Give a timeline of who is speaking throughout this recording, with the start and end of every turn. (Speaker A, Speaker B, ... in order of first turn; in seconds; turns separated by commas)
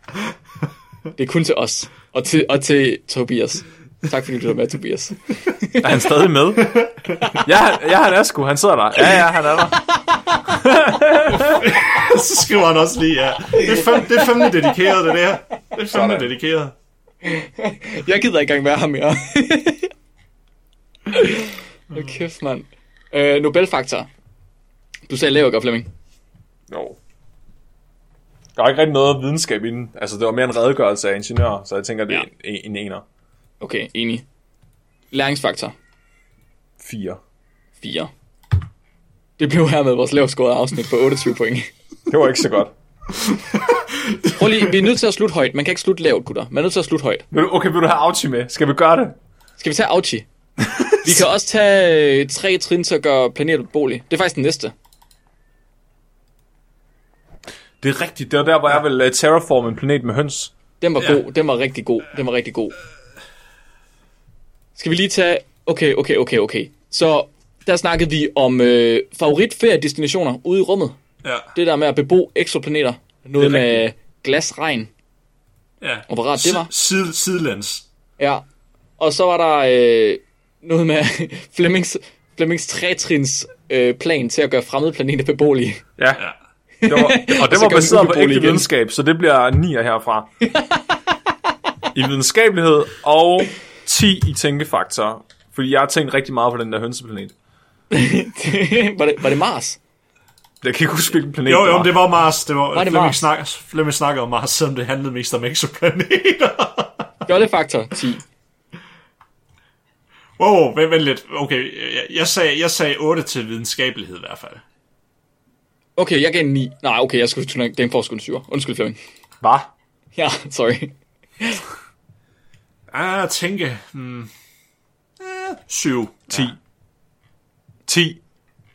Speaker A: 1.2-6.0, Speaker B: 5.8-6.8, Speaker B: 7.3-9.8, Speaker B: 10.4-11.6, Speaker C: 11.5-16.7, Speaker A: 13.6-14.9, Speaker B: 15.9-16.3, Speaker A: 17.2-19.9, Speaker A: 21.1-24.1, Speaker A: 25.1-25.9, Speaker B: 26.7-27.0, Speaker B: 28.6-33.0, Speaker A: 33.6-34.2, Speaker A: 35.1-35.7, Speaker B: 36.8-37.2, Speaker A: 37.8-38.1, Speaker A: 39.4-41.7, Speaker B: 42.1-42.7, Speaker C: 43.4-44.6, Speaker A: 44.3-47.2, Speaker B: 47.3-49.2, Speaker A: 49.6-50.3, Speaker A: 51.0-54.7, Speaker B: 57.8-60.5, Speaker A: 60.8-62.8, Speaker A: 64.8-71.0, Speaker C: 71.2-71.5, Speaker A: 71.5-74.9, Speaker C: 73.4-73.8, Speaker C: 75.8-77.8, Speaker A: 76.1-76.7, Speaker A: 78.2-78.4, Speaker A: 79.0-85.8, Speaker A: 86.8-88.7, Speaker B: 86.9-90.4, Speaker B: 91.9-97.3, Speaker A: 97.9-99.8, Speaker B: 100.6-102.0, Speaker C: 101.4-107.1, Speaker A: 102.7-103.2, Speaker A: 107.3-108.2, Speaker C: 110.4-114.6, Speaker A: 116.0-119.0, Speaker B: 119.4-119.7, Speaker A: 120.2-121.6, Speaker C: 122.9-124.3, Speaker C: 125.2-126.5, Speaker B: 126.3-126.6, Speaker B: 127.9-128.2